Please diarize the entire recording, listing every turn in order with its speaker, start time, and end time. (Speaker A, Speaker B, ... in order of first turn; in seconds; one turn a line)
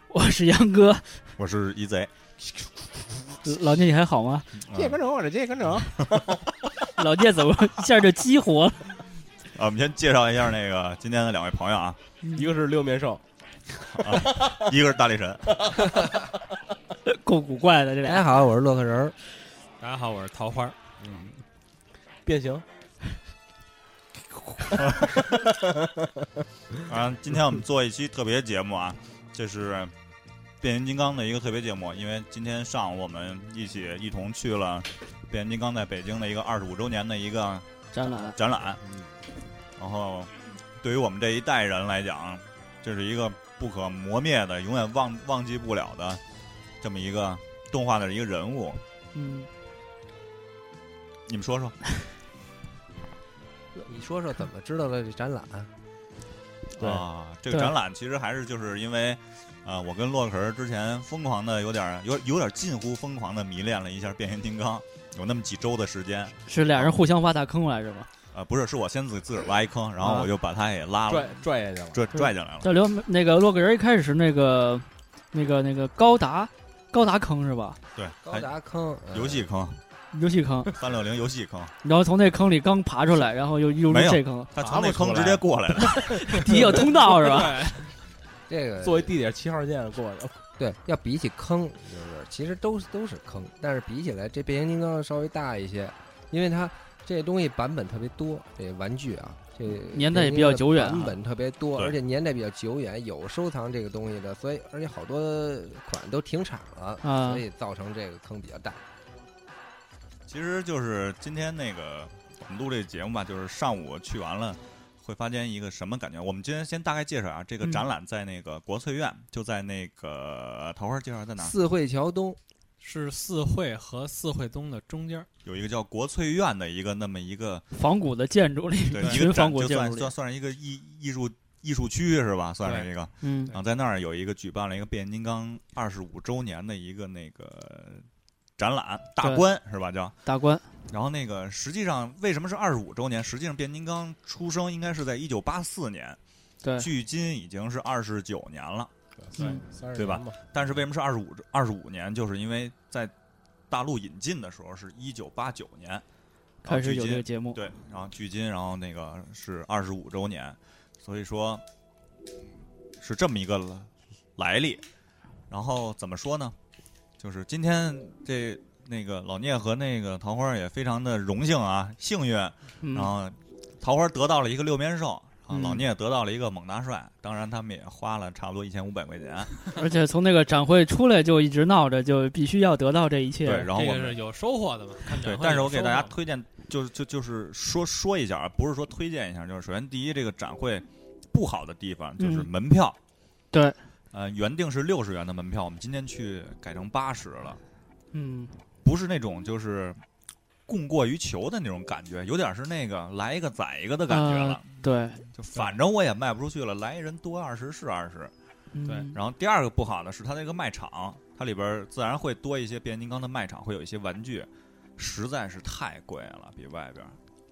Speaker A: 0.1-1.2
Speaker B: 1.4-2.1
Speaker A: 3.4-4.6
Speaker B: 4.6-5.0
Speaker C: 4.7-6.5
Speaker A: 7.0-9.0
Speaker B: 9.5-12.0
Speaker C: 12.3-13.2
Speaker B: 13.9-15.7
Speaker C: 14.0-14.7
Speaker A: 17.1-18.3
Speaker D: 18.1-19.2
Speaker E: 19.8-20.8
Speaker C: 21.0-21.4
Speaker C: 22.2-22.6
Speaker C: 25.3-26.4
Speaker B: 26.8-29.9
Speaker B: 30.6-37.7
Speaker A: 37.9-38.4
Speaker B: 38.2-38.8
Speaker B: 39.8-46.2
Speaker B: 46.8-48.8
Speaker A: 49.1-49.5
Speaker B: 51.3-51.8
Speaker D: 53.8-55.7
Speaker B: 56.8-67.0
Speaker A: 66.5-68.1
Speaker B: 68.3-72.7
Speaker A: 70.0-70.3
Speaker C: 71.1-72.1
Speaker A: 72.1-77.8
Speaker B: 78.0-78.5
Speaker D: 78.2-79.5
Speaker B: 79.1-79.8
Speaker A: 80.1-80.8
Speaker B: 80.7-81.7
Speaker A: 81.8-84.5
Speaker B: 83.9-86.3
Speaker C: 84.6-85.5
Speaker A: 85.8-87.7
Speaker C: 86.4-87.2
Speaker E: 87.1-87.8
Speaker D: 88.5-89.1
Speaker C: 88.8-90.5
Speaker D: 90.6-108.8
Speaker A: 99.9-101.2
Speaker A: 107.0-107.4
Speaker B: 110.3-121.5
Speaker D: 121.4-122.4
Speaker E: 122.8-125.3
Speaker B: 125.4-127.7
Speaker A: 127.7-130.1
Speaker B: 128.9-138.1
Speaker E: 129.0-129.2
Speaker E: 132.6-132.9
Speaker A: 133.2-133.5
Speaker B: 138.6-140.2
Speaker A: 139.2-139.4
Speaker A: 140.3-140.7
Speaker B: 140.9-146.2
Speaker A: 146.6-146.9
Speaker B: 146.8-148.9
Speaker C: 149.2-150.7
Speaker A: 149.4-149.7
Speaker B: 149.9-153.1
Speaker B: 153.7-156.0
Speaker B: 156.6-161.6
Speaker A: 156.7-157.6
Speaker B: 163.0-164.8
Speaker B: 165.5-166.6
Speaker B: 167.2-179.7
Speaker A: 172.8-173.1
Speaker A: 175.5-175.8
Speaker A: 179.7-183.7
Speaker B: 183.4-184.2
Speaker E: 183.7-186.2
Speaker B: 185.2-193.0
Speaker A: 192.2-192.5
Speaker A: 193.5-193.8
Speaker B: 194.1-197.6
Speaker A: 198.1-198.6
Speaker B: 198.8-200.0
Speaker B: 200.7-204.7
Speaker A: 204.1-205.2
Speaker B: 205.3-208.3
Speaker A: 208.7-209.2
Speaker B: 209.1-217.2